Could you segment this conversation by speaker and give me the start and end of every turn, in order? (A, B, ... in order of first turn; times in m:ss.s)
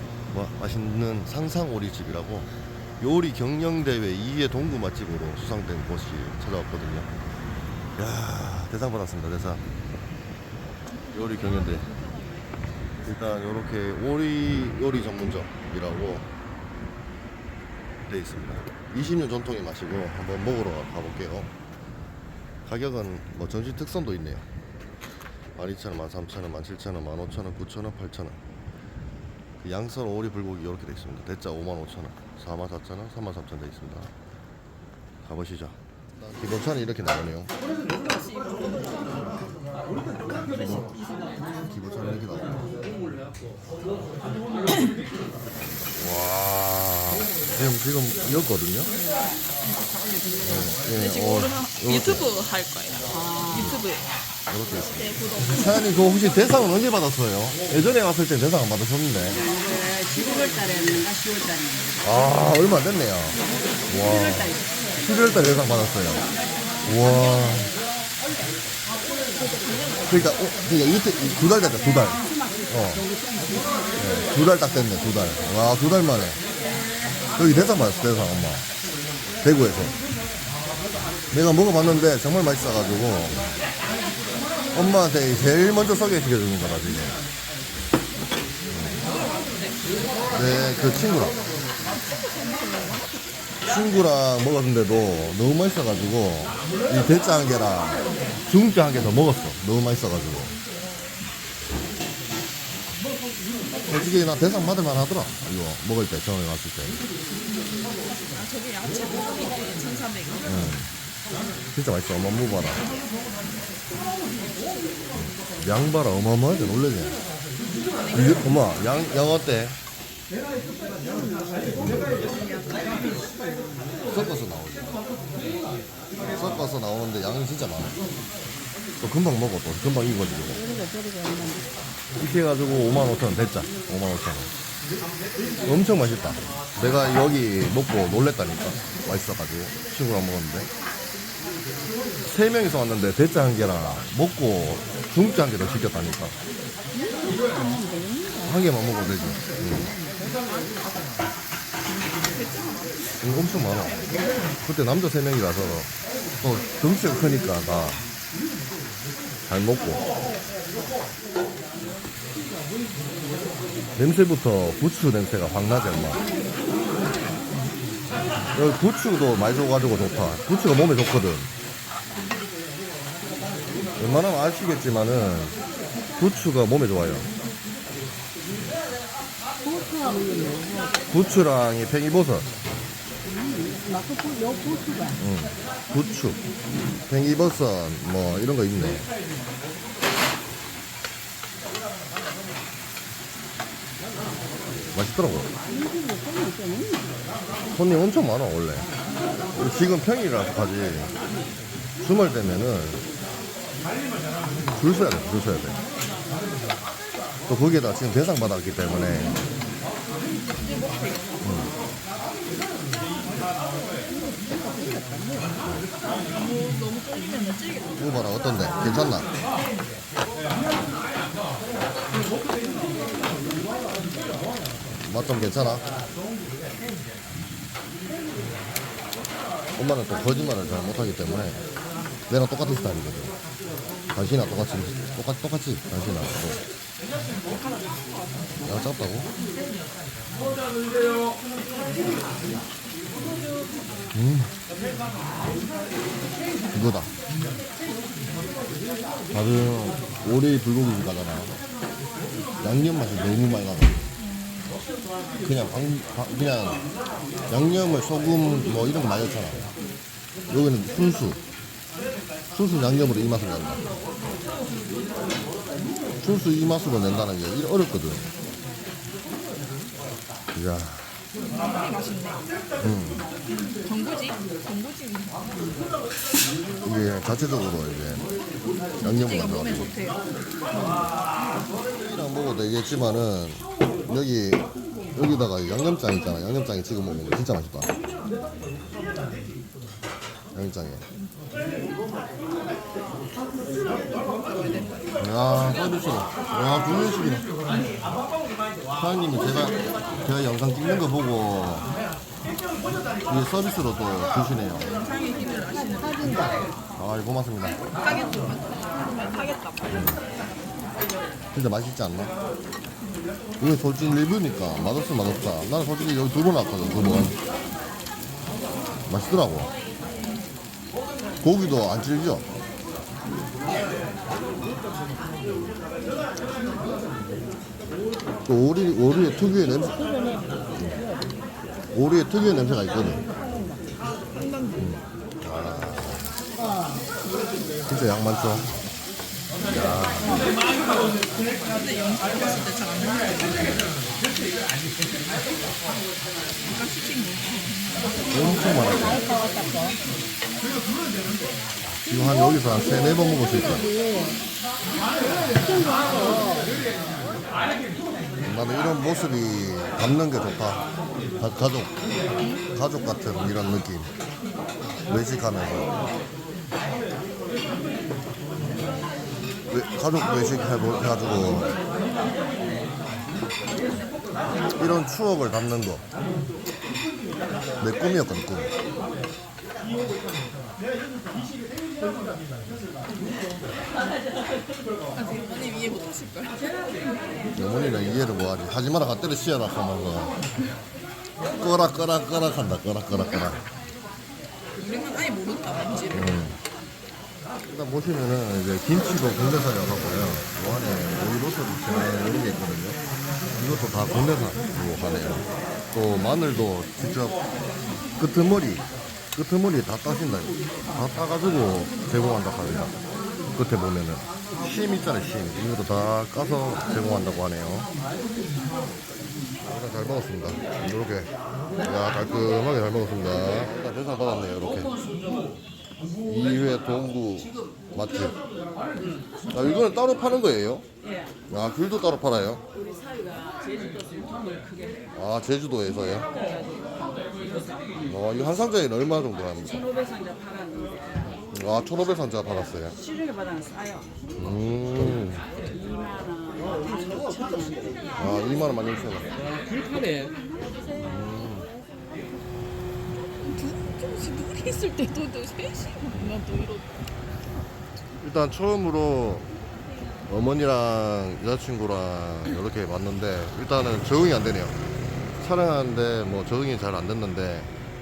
0:00.3-0:02.5 A
0:03.0-0:07.1 A
0:08.0-0:09.6 A
0:11.1-0:11.9 A
0:11.1-0:12.6 B
0:13.0-0:16.3 A
0:18.0-0:21.5 A
0:22.6-0:24.4 A
0:25.5-0:28.4 A
0:29.6-0:34.1 A
0:35.2-0:37.5 A
0:38.0-0:38.7 B
0:40.4-0:40.9 A
0:41.6-0:42.7 A
0:45.8-0:48.9 A
0:50.4-0:52.3 A
0:50.7-0:54.1 B
0:54.5-0:59.4 A
0:54.9-0:55.9 B
1:02.0-1:06.2 A
1:06.8-1:07.7 A
1:09.4-1:10.1 B
1:10.1-1:13.0 A
1:14.0-1:16.4 A
1:17.4-1:18.6 A
1:19.4-1:19.9 A
1:21.3-1:23.5 A
1:24.7-1:27.2 A
1:28.7-1:29.0 A
1:29.0-1:30.6 B
1:30.3-1:31.4 A
1:32.2-1:33.1 B
1:33.6-1:40.5 A
1:43.9-1:47.0 A
1:48.3-1:50.6 B
1:50.4-1:50.9 A
1:51.7-1:52.9 A
1:55.1-1:57.2 A
1:58.0-1:58.5 B
1:58.1-1:59.8 A
2:01.1-2:01.4 C
2:01.8-2:02.1 A
2:04.1-2:04.9 A
2:06.3-2:07.9 A
2:09.0-2:10.6 A
2:10.6-2:11.7 C
2:12.2-2:14.5 A
2:15.6-2:20.7 A
2:22.2-2:26.3 A
2:27.0-2:28.6 C
2:28.4-2:30.0 A
2:32.3-2:34.2 B
2:33.2-2:33.9 A
2:34.6-2:38.0 A
2:39.5-2:40.0 A
2:44.0-2:46.2 A
2:48.5-2:51.5 A
2:54.0-2:55.6 A
2:56.2-2:57.3 A
2:59.6-3:01.0 C
3:01.1-3:02.5 A
3:03.2-3:05.2 C
3:05.2-3:06.4 A
3:07.1-3:09.1 A
3:14.9-3:15.5 A
3:15.7-3:17.2 C
3:17.7-3:18.9 A
3:19.5-3:21.1 A
3:22.0-3:23.0 A
3:24.7-3:25.8 A
3:27.5-3:29.4 A
3:30.6-3:31.4 B
3:31.4-3:31.7 A
3:34.1-3:35.5 C
3:36.3-3:38.2 B
3:38.0-3:39.3 A
3:45.0-3:45.9 A
3:49.8-3:51.6 A
3:52.3-3:53.3 A
3:54.1-3:56.6 A
3:57.7-3:58.4 B
3:58.6-3:59.3 A
4:04.1-4:04.5 A
4:06.7-4:07.1 A
4:09.3-4:11.6 A
4:12.6-4:14.1 A
4:14.2-4:14.8 B
4:15.4-4:16.8 A
4:17.5-4:19.7 A
4:20.5-4:21.4 A
4:22.5-4:23.8 A
4:26.2-4:28.3 A
4:30.5-4:31.2 A
4:31.4-4:32.4 B
4:32.8-4:33.2 A
4:33.5-4:35.4 B
4:36.8-4:38.3 A
4:39.0-4:39.9 A
4:39.0-4:41.0 B
4:41.9-4:47.9 A
4:50.5-4:51.0 A
4:54.6-4:54.9 B
4:55.2-4:57.5 A
4:59.0-5:01.9 A
5:03.3-5:05.0 A
5:04.9-5:06.5 B
5:06.0-5:06.3 C
5:07.0-5:07.8 A
5:08.0-5:10.0 B
5:09.9-5:10.2 A
5:11.5-5:12.3 A
5:13.6-5:17.3 A
5:19.1-5:19.7 A
5:21.4-5:22.4 A
5:28.4-5:30.1 A
5:30.0-5:31.4 C
5:31.9-5:33.2 A
5:33.4-5:33.8 C
5:34.3-5:34.9 B
5:34.8-5:36.3 A
5:37.9-5:38.7 A
5:39.6-5:40.5 A
5:41.7-5:43.7 B
5:46.6-5:48.5 B
5:48.3-5:49.2 A
5:49.0-5:50.0 C
5:52.0-5:53.9 A
5:53.7-5:54.4 C
5:55.6-5:56.7 C
5:58.4-6:00.9 A
6:01.4-6:01.9 A
6:02.7-6:04.1 A
6:05.1-6:05.9 A
6:09.7-6:11.7 A
6:14.8-6:16.0 A
6:17.8-6:18.7 A
6:25.1-6:26.7 B
6:27.5-6:30.3 A
6:31.5-6:33.6 A
6:33.1-6:33.6 B
6:34.8-6:36.4 B
6:36.1-6:36.6 A
6:37.7-6:43.0 A
6:43.5-6:47.4 A
6:48.2-6:52.9 A
6:53.5-6:57.9 A
6:59.6-7:01.3 A
7:01.8-7:04.9 A
7:06.2-7:08.4 A
7:09.5-7:10.8 A
7:11.5-7:12.6 A
7:15.1-7:16.3 A
7:18.0-7:19.8 A
7:21.4-7:23.0 A
7:24.4-7:25.4 A
7:28.2-7:29.3 A
7:30.0-7:30.3 B
7:31.0-7:31.7 A
7:33.1-7:36.9 B
7:38.2-7:39.5 A
7:40.3-7:44.8 A
7:45.4-7:47.7 A